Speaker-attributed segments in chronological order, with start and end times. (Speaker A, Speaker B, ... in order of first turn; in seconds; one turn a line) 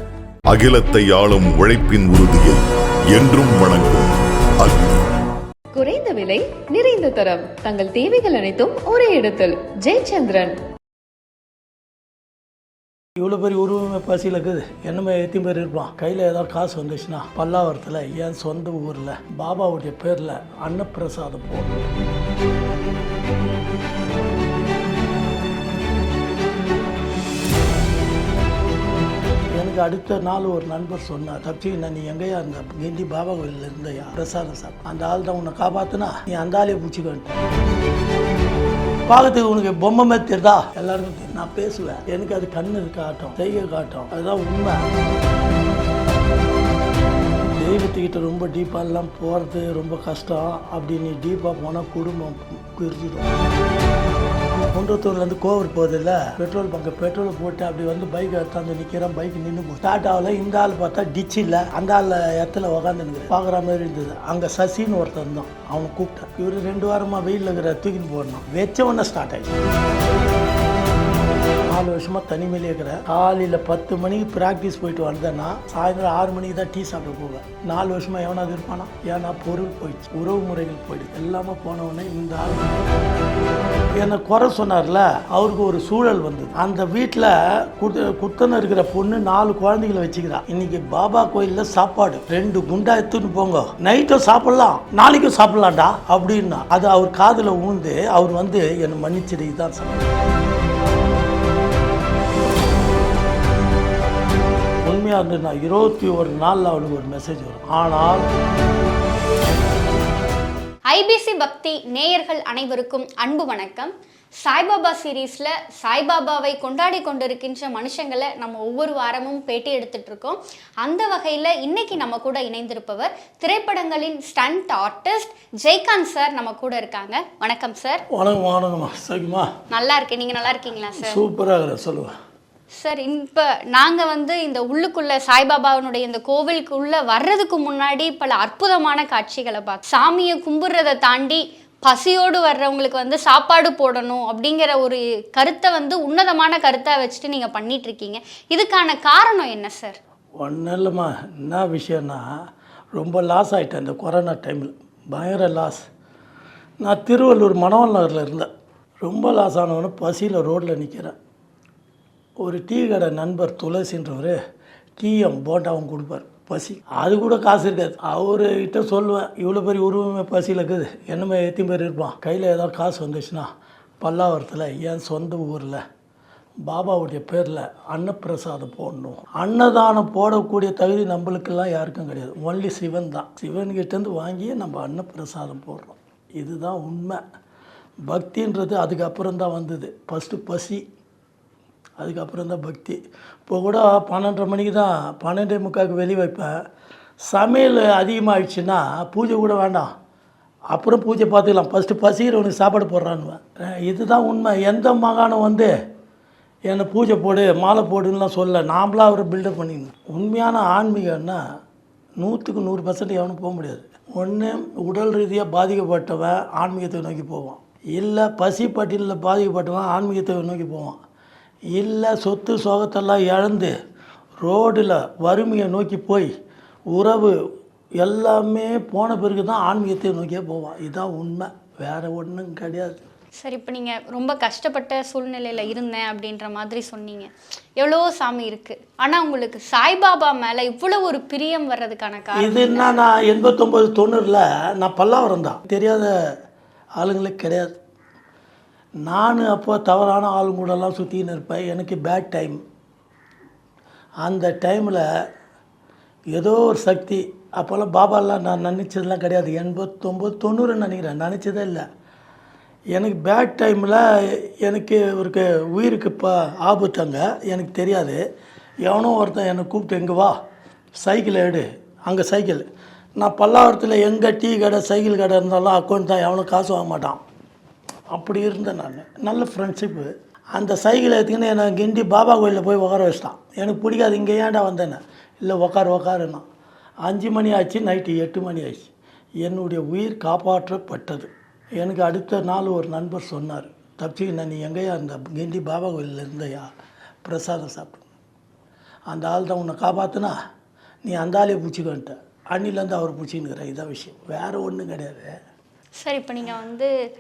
Speaker A: 0.5-2.6
Speaker A: 3.1-4.1
Speaker B: 5.7-10.5
Speaker C: 13.2-21.8
Speaker C: 29.5-37.3
Speaker C: 39.1-44.9
Speaker C: 47.5-53.3
Speaker C: 54.6-69.5
Speaker C: 71.7-82.7
Speaker C: 83.9-100.0
Speaker C: 104.9-108.2
Speaker D: 110.9-113.9
Speaker D: 114.4-128.0
Speaker C: 128.1-129.5
Speaker D: 129.7-131.2
Speaker C: 131.0-132.1
Speaker D: 132.8-150.0
Speaker C: 150.4-152.2
Speaker C: 152.9-155.8
Speaker C: 156.8-158.5
Speaker C: 159.0-161.2
Speaker C: 162.4-164.4
Speaker C: 165.0-173.5
Speaker C: 174.0-175.8
Speaker C: 176.7-187.2
Speaker C: 188.1-190.8
Speaker C: 192.0-196.5
Speaker C: 197.3-199.9
Speaker C: 200.7-205.7
Speaker C: 206.7-211.4
Speaker C: 212.2-221.0
Speaker C: 221.7-223.7
Speaker C: 224.4-226.3
Speaker C: 226.9-227.3
Speaker C: 228.0-233.0
Speaker D: 233.4-243.1
Speaker C: 242.3-246.1
Speaker C: 247.0-247.8
Speaker C: 249.0-252.6
Speaker C: 254.2-255.0
Speaker C: 256.3-261.8
Speaker C: 262.9-268.2
Speaker C: 268.8-270.3
Speaker C: 271.0-272.6
Speaker C: 273.2-277.2
Speaker C: 278.1-286.4
Speaker C: 287.1-288.9
Speaker C: 289.4-296.7
Speaker C: 297.2-298.0
Speaker C: 299.1-300.3
Speaker C: 301.0-305.3
Speaker D: 306.0-306.9